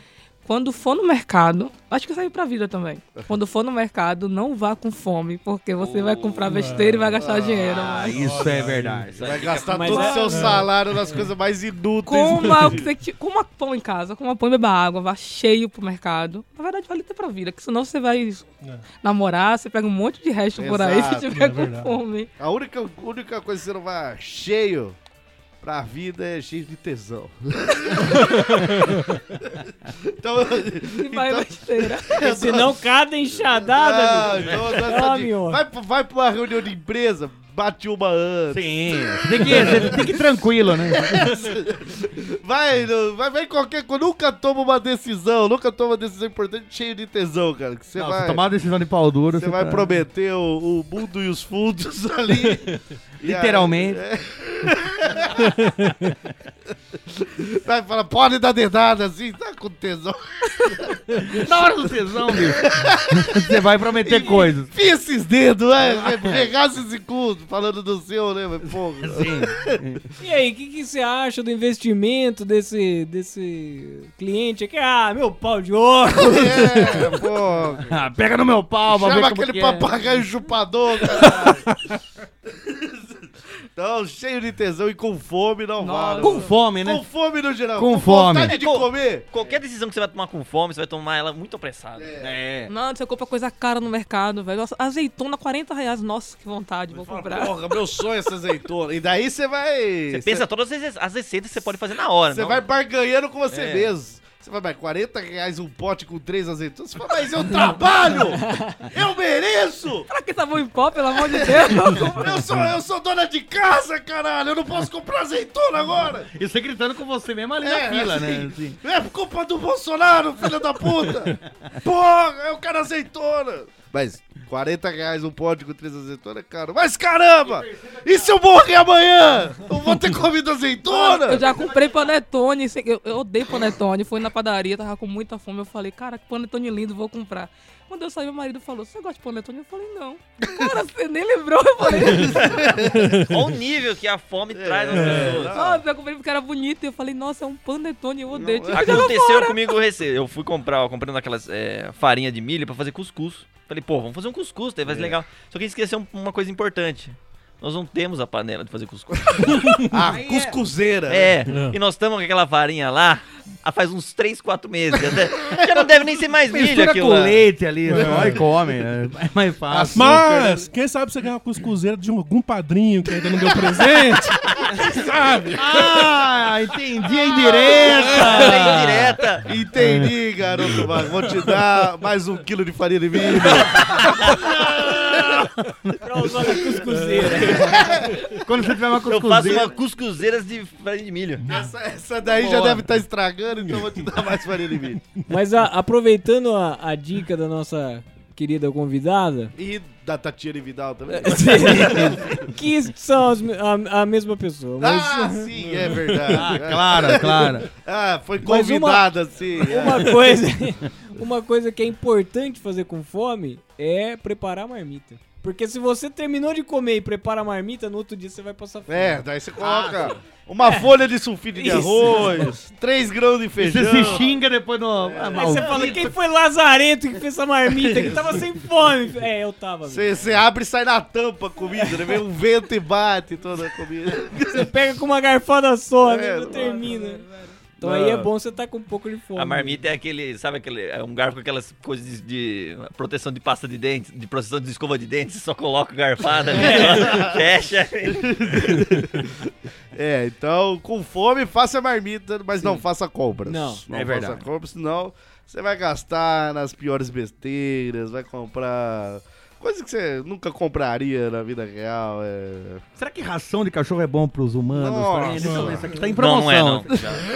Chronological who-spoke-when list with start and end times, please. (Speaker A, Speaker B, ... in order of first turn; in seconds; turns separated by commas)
Speaker A: 0.4-8.3, Speaker B: 5.8-6.4, Speaker C: 6.5-7.2, Speaker D: 7.2-8.0, Speaker B: 7.6-9.5, Speaker C: 8.1-9.1, Speaker E: 9.1-10.1, Speaker D: 9.2-12.9, Speaker F: 9.7-10.7, Speaker A: 9.9-10.3, Speaker C: 10.3-11.3, Speaker A: 12.0-18.5, Speaker A: 19.0-22.3, Speaker D: 20.6-21.4, Speaker C: 21.3-22.0, Speaker D: 22.4-25.0, Speaker D: 25.6-32.8, Speaker C: 28.4-28.9, Speaker A: 31.0-32.2, Speaker F: 32.2-35.6, Speaker D: 33.5-40.2, Speaker B: 38.5-41.3, Speaker D: 40.9-48.4, Speaker B: 48.0-50.0, Speaker D: 49.4-52.7, Speaker B: 53.2-54.0, Speaker D: 53.2-55.6, Speaker C: 55.6-56.1, Speaker D: 57.1-61.5, Speaker B: 61.2-64.7, Speaker D: 62.3-69.8, Speaker B: 65.8-66.5, Speaker B: 69.0-70.0, Speaker F: 70.2-77.2, Speaker D: 76.2-78.0, Speaker B: 77.8-80.0, Speaker D: 78.9-81.7, Speaker C: 81.2-82.0, Speaker D: 82.5-89.6, Speaker A: 85.8-86.6, Speaker B: 86.2-87.0, Speaker B: 87.7-88.5, Speaker E: 88.4-92.1, Speaker D: 92.0-92.4, Speaker B: 92.2-92.7, Speaker A: 92.7-97.8, Speaker D: 96.9-100.4, Speaker E: 100.1-102.7, Speaker D: 102.3-110.1, Speaker E: 103.5-103.9, Speaker A: 110.1-112.5, Speaker D: 111.1-116.3, Speaker B: 116.3-118.8, Speaker D: 117.6-131.6, Speaker B: 127.4-128.4, Speaker A: 130.8-142.7, Speaker B: 131.6-132.1, Speaker D: 141.9-143.1, Speaker E: 142.2-145.6, Speaker C: 142.9-143.4, Speaker D: 144.5-145.8, Speaker C: 144.9-145.4, Speaker A: 145.5-149.8, Speaker D: 148.3-149.2, Speaker E: 148.7-159.7, Speaker B: 154.9-155.2, Speaker D: 159.3-161.4, Speaker C: 159.6-159.9, Speaker F: 160.1-160.6, Speaker E: 161.1-167.4, Speaker C: 161.5-161.8, Speaker D: 165.1-165.9, Speaker B: 166.5-170.2, Speaker C: 167.9-168.4, Speaker D: 169.7-170.7, Speaker C: 169.9-176.1, Speaker D: 173.5-174.7, Speaker B: 175.6-179.2, Speaker D: 177.5-178.1, Speaker E: 177.8-179.5, Speaker D: 179.4-185.5, Speaker B: 179.8-180.1, Speaker B: 183.5-185.9, Speaker F: 186.0-188.0, Speaker C: 186.9-187.7, Speaker D: 187.5-188.1, Speaker B: 188.4-189.7, Speaker E: 189.1-191.4, Speaker D: 191.5-195.0, Speaker B: 192.3-192.9, Speaker F: 195.3-199.5, Speaker D: 199.6-202.4, Speaker F: 201.1-205.5, Speaker B: 201.8-202.1, Speaker D: 204.8-210.2, Speaker B: 206.3-207.7, Speaker F: 208.4-219.2, Speaker D: 218.9-224.3, Speaker B: 219.6-220.2, Speaker F: 221.6-222.5, Speaker B: 223.6-226.1, Speaker D: 225.0-226.0, Speaker F: 225.3-230.2, Speaker D: 227.8-228.3, Speaker D: 229.9-234.7, Speaker F: 234.4-237.2, Speaker D: 236.0-236.8, Speaker A: 236.6-237.6, Speaker F: 237.8-239.8, Speaker D: 237.8-238.2, Speaker E: 239.4-248.3, Speaker F: 246.5-247.1, Speaker D: 246.7-247.4, Speaker D: 248.1-262.8, Speaker F: 253.4-253.8, Speaker B: 253.9-254.4, Speaker B: 263.0-267.1, Speaker D: 264.8-265.9, Speaker C: 265.4-265.8, Speaker E: 266.1-267.3